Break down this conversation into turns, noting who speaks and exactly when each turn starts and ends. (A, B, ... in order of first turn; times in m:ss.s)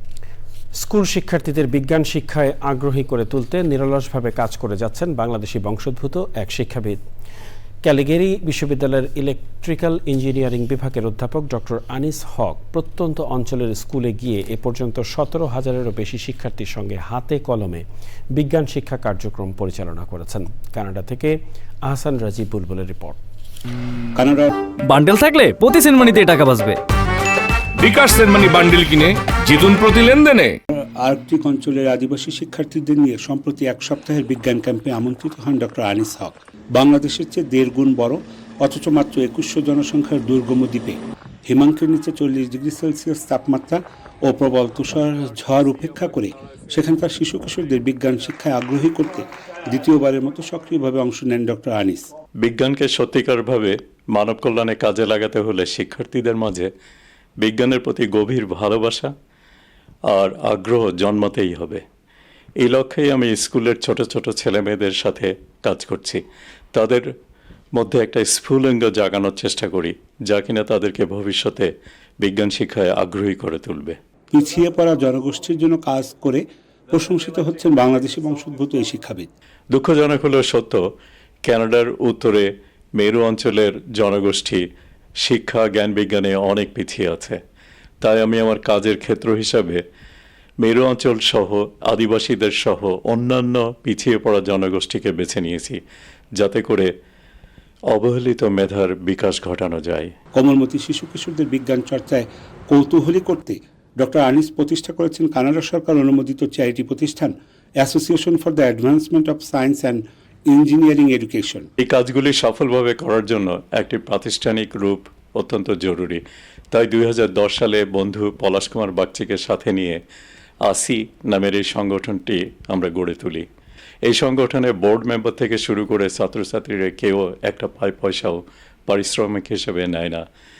0:00.8-0:07.0 A
0:07.8-0:23.2 A
0:24.2-0:24.6 B
0:24.9-0:26.8 C
0:27.8-0:30.6 D
0:30.7-0:52.1 B
0:52.4-0:56.7 E
0:57.4-0:59.1 E
1:00.1-1:01.8 E
1:02.6-1:06.2 E
1:06.7-1:07.1 E
1:07.8-1:11.7 E
1:12.2-1:14.0 E
1:14.3-1:19.3 B
1:19.7-1:20.8 E
1:21.4-1:24.6 E
1:25.2-1:27.4 E
1:28.0-1:29.8 E
1:30.6-1:35.8 E
1:36.4-1:36.9 E
1:37.9-1:40.1 E
1:40.3-1:51.7 B
1:51.8-2:00.0 E
2:00.6-2:03.5 E
2:04.1-2:10.2 E